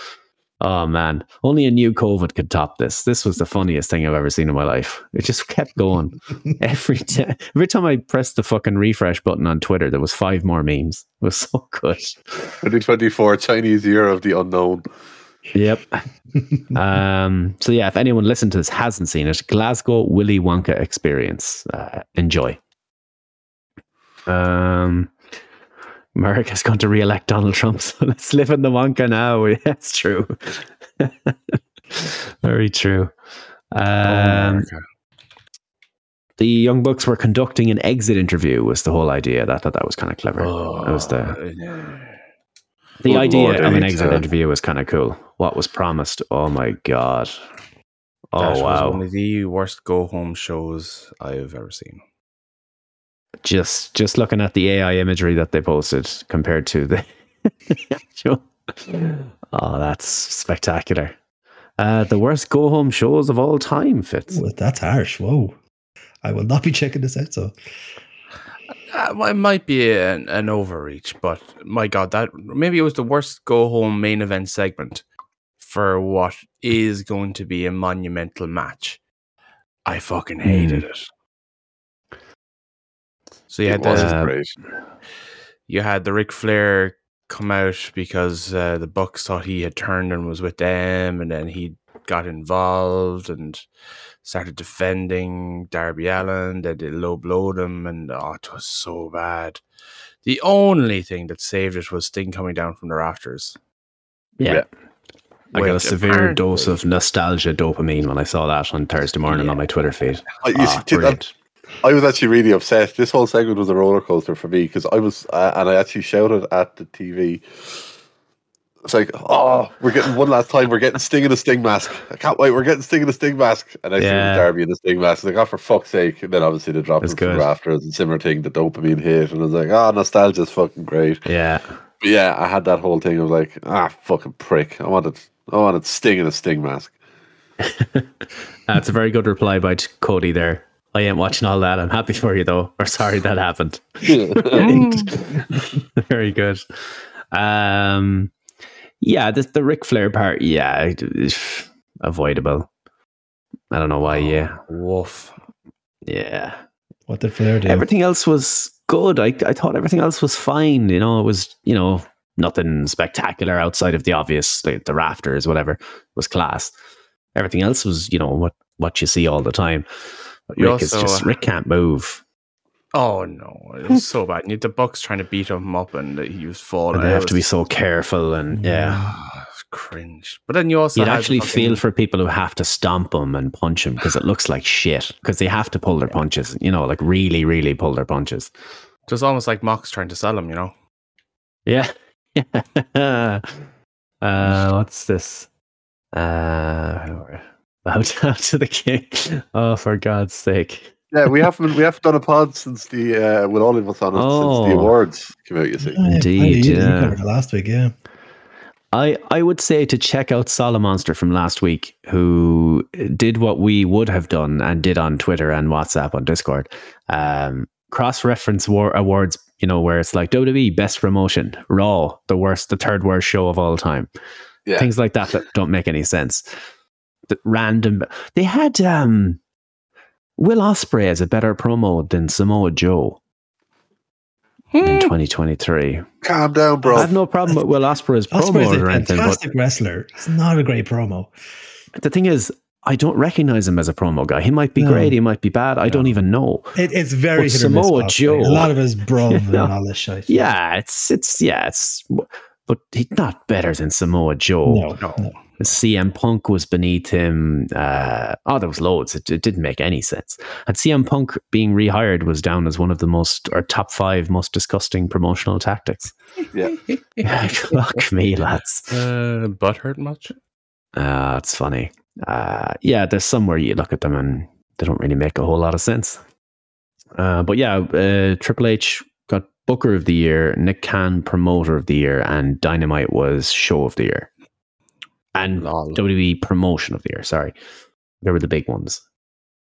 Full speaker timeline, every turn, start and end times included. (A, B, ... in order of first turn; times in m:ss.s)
0:00.6-0:12.2 A
0:12.6-0:14.9 B
0:15.5-0:16.0 A
0:16.7-0:22.6 A
0:24.3-0:25.1 A
0:26.1-0:33.1 A
0:33.7-0:34.7 A
0:34.0-0:34.8 C
0:36.4-0:41.4 A
0:40.4-0:42.2 C
0:43.0-0:47.4 A
0:43.0-0:44.2 B
0:48.3-0:49.0 A
0:48.4-0:52.0 C
0:53.4-1:01.1 A
1:01.8-1:04.4 A
1:04.3-1:05.6 D
1:06.2-1:07.5 D
1:08.9-1:15.0 C
1:15.6-1:19.0 C
1:19.8-1:21.1 C
1:20.4-1:20.8 A
1:23.5-1:24.2 C
1:23.6-1:24.5 B
1:23.9-1:24.3 A
1:25.7-1:33.7 C
1:34.2-1:39.6 C
1:40.2-1:43.6 C
1:44.4-1:44.6 A
1:45.5-1:51.3 A
1:45.5-1:46.8 C
1:49.3-1:49.6 C
1:50.4-1:51.2 B
1:51.8-1:57.4 B
1:58.8-2:11.2 B
2:04.0-2:04.5 A
2:07.0-2:07.5 A
2:11.2-2:11.8 A
2:12.0-2:16.9 B
2:17.6-2:18.1 A
2:18.7-2:28.3 A
2:24.0-2:24.8 B
2:24.6-2:25.1 C
2:29.0-2:32.7 A
2:33.7-2:34.6 A
2:34.1-2:35.3 C
2:36.0-2:36.6 A
2:37.1-2:37.9 D
2:37.6-2:46.7 A
2:47.3-2:49.9 A
2:50.5-2:51.3 C
2:50.5-2:52.2 A
2:52.9-2:57.5 C
2:56.9-2:59.1 A
2:58.6-2:59.0 D
2:59.0-3:01.8 C
3:00.9-3:08.5 A
3:09.1-3:10.7 C
3:11.6-3:13.6 A
3:14.2-3:15.5 A
3:16.1-3:21.0 A
3:21.1-3:26.0 B
3:24.1-3:24.9 A
3:25.9-3:27.9 D
3:26.0-3:27.2 A
3:28.9-3:44.1 A
3:44.6-3:44.9 B
3:44.8-3:46.5 A
3:47.3-3:49.4 A
3:50.4-3:53.2 A
3:54.7-3:55.1 C
3:54.8-3:56.1 A
3:56.2-3:57.1 B
3:56.9-3:57.6 D
3:56.9-3:59.4 A
3:58.3-4:01.3 D
4:02.0-4:06.8 A
4:04.8-4:05.2 D
4:06.7-4:10.5 D
4:07.3-4:08.7 A
4:09.3-4:09.7 A
4:10.3-4:14.9 A
4:14.6-4:15.3 D
4:15.0-4:15.4 C
4:15.6-4:26.2 A
4:26.9-4:27.2 C
4:27.2-4:28.9 A
4:27.7-4:28.0 C
4:28.9-4:30.3 C
4:31.0-4:36.2 A
4:37.2-4:44.3 A
4:45.3-4:47.5 A
4:45.6-4:46.0 C
4:48.2-4:49.0 A